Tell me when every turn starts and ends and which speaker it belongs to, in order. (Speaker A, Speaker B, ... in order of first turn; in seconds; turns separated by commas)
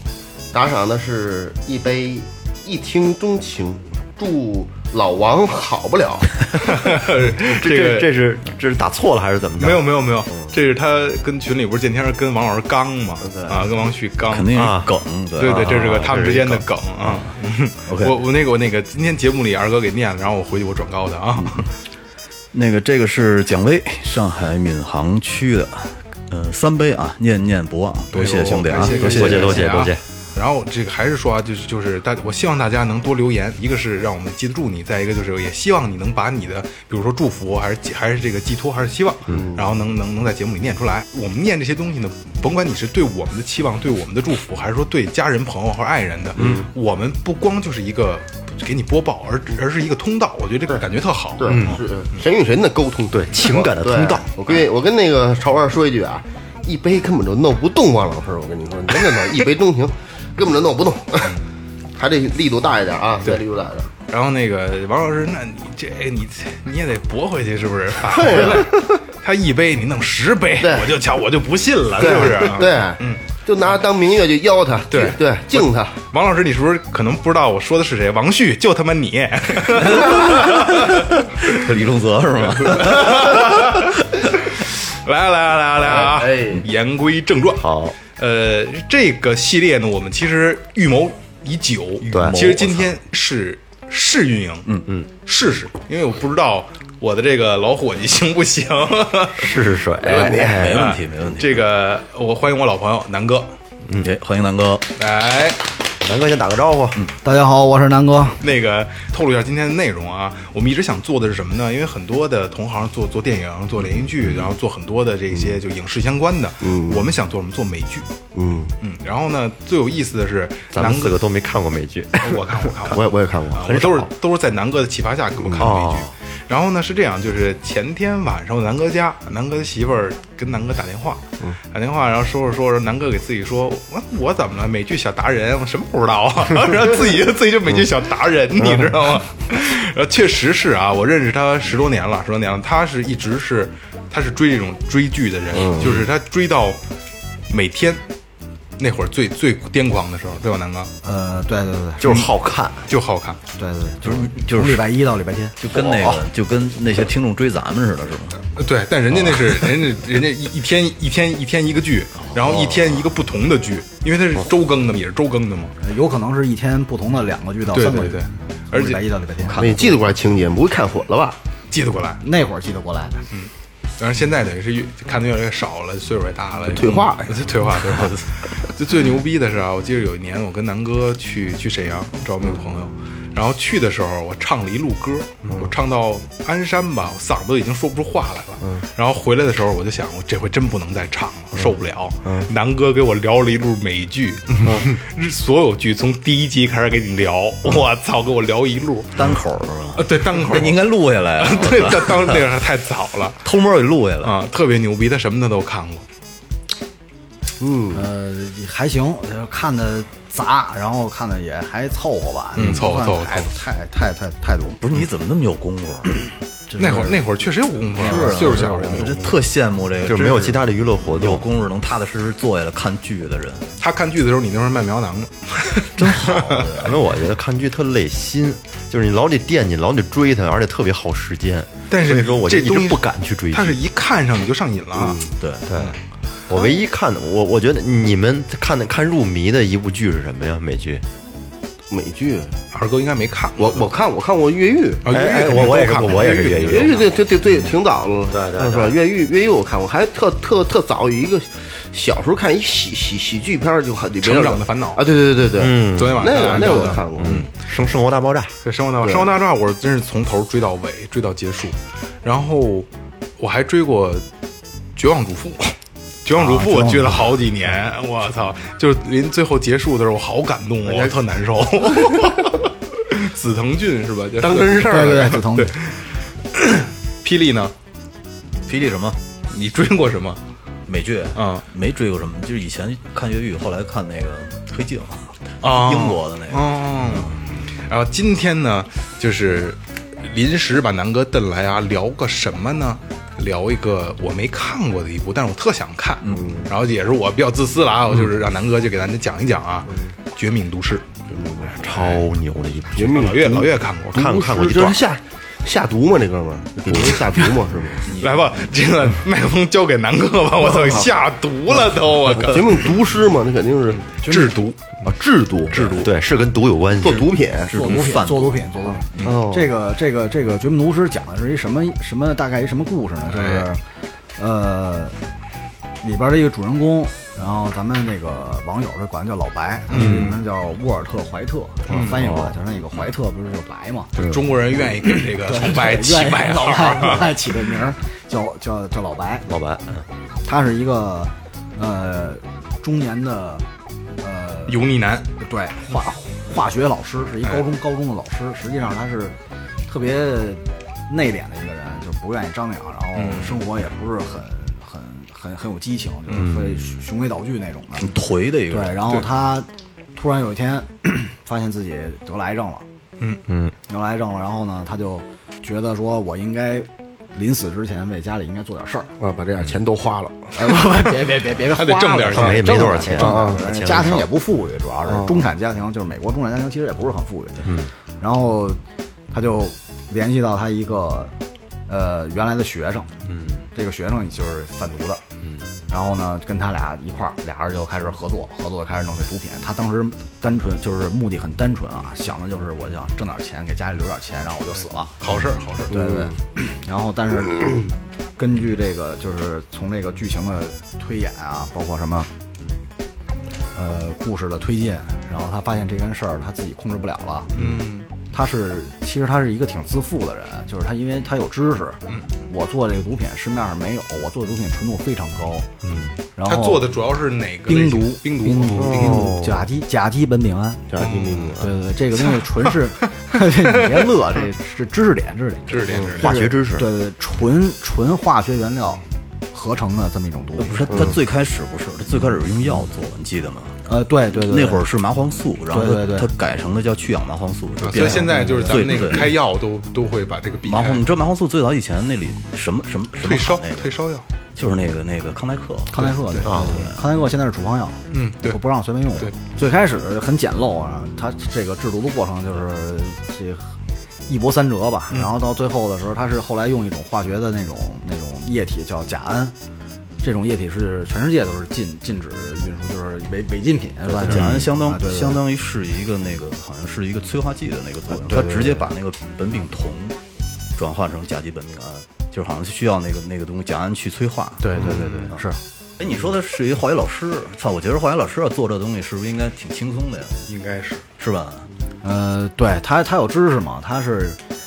Speaker A: 0.5-6.8, Speaker B: 6.5-8.1, Speaker C: 7.3-10.6, Speaker B: 9.6-14.6, Speaker D: 14.3-16.0, Speaker C: 14.5-16.6, Speaker B: 15.4-21.7, Speaker D: 17.9-18.2, Speaker D: 21.4-21.6, Speaker D: 22.5-29.9, Speaker B: 28.1-51.8, Speaker A: 28.7-29.4, Speaker C: 28.9-30.0, Speaker A: 39.3-39.7, Speaker A: 46.4-46.7, Speaker C: 46.4-46.6, Speaker A: 51.4-61.4, Speaker C: 51.5-51.8, Speaker C: 53.1-54.4, Speaker A: 61.9-63.9, Speaker B: 64.1-73.8, Speaker A: 68.0-69.0, Speaker A: 70.6-70.9, Speaker A: 72.0-76.0, Speaker B: 74.9-81.8, Speaker D: 79.8-84.1, Speaker B: 82.5-94.7, Speaker A: 85.8-86.7, Speaker C: 87.6-88.0, Speaker D: 92.0-92.9, Speaker C: 92.1-92.4, Speaker B: 95.2-103.5, Speaker C: 99.3-100.9, Speaker D: 100.1-101.6, Speaker D: 103.9-104.9, Speaker B: 105.0-105.6, Speaker C: 106.0-107.0, Speaker E: 107.2-108.4, Speaker B: 108.4-118.0, Speaker A: 116.6-117.0, Speaker A: 118.3-118.7, Speaker B: 118.8-121.2, Speaker C: 120.7-124.1, Speaker B: 122.2-146.8, Speaker A: 122.9-123.5, Speaker A: 125.4-125.7, Speaker C: 125.5-126.1, Speaker A: 145.5-146.1, Speaker B: 147.5-148.0, Speaker B: 148.8-150.9, Speaker E: 151.0-152.1, Speaker C: 152.0-152.8, Speaker B: 152.0-152.3, Speaker B: 152.9-153.4, Speaker E: 153.6-156.1, Speaker D: 154.0-154.9, Speaker D: 155.6-158.5, Speaker B: 158.6-165.7, Speaker D: 159.2-159.6, Speaker C: 162.4-162.9, Speaker E: 165.8-169.9, Speaker B: 167.7-169.0, Speaker A: 169.5-171.4, Speaker B: 171.7-172.2, Speaker E: 172.2-173.2, Speaker B: 173.3-199.3, Speaker A: 176.7-177.3, Speaker D: 177.9-178.2, Speaker D: 199.1-202.5, Speaker B: 199.9-203.4, Speaker D: 203.4-204.4, Speaker B: 204.2-206.1, Speaker A: 207.6-208.1, Speaker E: 207.9-214.8, Speaker B: 212.6-213.5, Speaker D: 212.6-212.8, Speaker D: 214.8-216.1, Speaker E: 216.7-217.2, Speaker B: 216.8-219.4, Speaker D: 218.0-223.7, Speaker E: 218.0-219.2, Speaker C: 220.1-221.4, Speaker B: 223.8-226.8, Speaker D: 226.0-227.0, Speaker C: 226.0-233.8, Speaker B: 231.9-235.2, Speaker A: 234.9-235.3, Speaker D: 235.4-235.7, Speaker C: 235.7-236.0, Speaker C: 236.5-241.0, Speaker A: 241.9-242.5, Speaker B: 242.7-243.9, Speaker A: 243.6-257.5, Speaker B: 245.0-247.0, Speaker C: 245.1-247.1, Speaker C: 248.3-249.0, Speaker B: 254.2-255.1, Speaker C: 255.6-258.5, Speaker B: 255.9-257.4, Speaker B: 258.6-262.9, Speaker A: 259.0-259.3, Speaker B: 263.4-264.2, Speaker B: 264.9-277.7, Speaker E: 266.3-267.2, Speaker A: 270.8-271.2, Speaker A: 271.9-272.5, Speaker A: 274.4-275.4, Speaker E: 274.8-275.7, Speaker D: 278.6-279.2, Speaker B: 279.5-280.4, Speaker D: 280.9-287.3, Speaker B: 281.3-281.6, Speaker B: 285.6-301.1, Speaker A: 296.3-296.7, Speaker A: 301.3-301.7, Speaker C: 301.6-303.3, Speaker B: 301.9-302.2, Speaker A: 303.0-308.1, Speaker B: 303.1-304.3, Speaker C: 304.1-305.1, Speaker B: 308.1-312.9, Speaker A: 310.6-311.0, Speaker A: 312.4-314.1, Speaker B: 314.1-314.8, Speaker E: 314.2-314.6, Speaker D: 315.3-316.0, Speaker B: 315.8-316.1, Speaker C: 316.0-317.3, Speaker A: 317.0-317.7, Speaker D: 317.7-318.6, Speaker E: 317.7-323.8, Speaker C: 319.2-319.7, Speaker B: 323.3-323.7, Speaker E: 324.4-325.1, Speaker E: 326.0-334.1, Speaker B: 329.9-330.3, Speaker C: 329.9-330.3, Speaker B: 331.9-332.3, Speaker C: 331.9-332.5, Speaker B: 334.2-337.4, Speaker E: 335.0-339.5, Speaker C: 339.5-340.0, Speaker E: 340.4-343.6, Speaker E: 344.2-349.4, Speaker B: 344.7-345.3, Speaker E: 349.9-362.8, Speaker B: 353.1-353.6, Speaker C: 356.3-356.9, Speaker D: 358.0-359.2, Speaker C: 363.5-363.7, Speaker E: 363.9-369.1, Speaker A: 369.2-370.5, Speaker E: 370.5-378.8, Speaker B: 371.7-372.9, Speaker C: 372.2-374.3, Speaker A: 373.1-373.6, Speaker C: 377.6-377.9, Speaker E: 379.3-381.3, Speaker E: 381.9-383.1, Speaker C: 383.2-383.6, Speaker E: 383.7-385.2, Speaker E: 385.9-395.1, Speaker B: 395.2-395.9, Speaker E: 395.9-402.3, Speaker A: 395.9-396.3, Speaker E: 403.7-407.5, Speaker B: 407.5-408.1, Speaker E: 408.3-415.7, Speaker C: 415.8-416.1, Speaker E: 416.4-416.9, Speaker B: 416.4-419.1, Speaker E: 417.7-421.0, Speaker C: 418.7-419.6, Speaker A: 418.8-419.3, Speaker A: 420.9-421.7, Speaker B: 421.0-421.6, Speaker E: 421.6-430.9, Speaker B: 425.7-426.4, Speaker A: 425.9-426.1, Speaker C: 426.1-426.9, Speaker D: 430.6-433.8, Speaker A: 430.9-431.2, Speaker E: 433.9-434.8, Speaker D: 434.3-439.4, Speaker E: 435.7-436.3, Speaker B: 437.8-441.0, Speaker E: 437.9-438.9, Speaker D: 440.6-444.0, Speaker B: 443.1-444.2, Speaker D: 444.5-447.0, Speaker E: 445.9-453.7, Speaker C: 446.4-446.8, Speaker B: 448.1-448.6, Speaker E: 454.3-459.5, Speaker E: 460.2-465.4, Speaker D: 464.1-470.2, Speaker E: 468.1-468.9, Speaker D: 470.7-475.4, Speaker E: 474.6-475.6, Speaker B: 474.8-475.3, Speaker D: 476.0-480.4, Speaker B: 480.5-481.0, Speaker D: 481.2-481.7, Speaker E: 482.0-484.4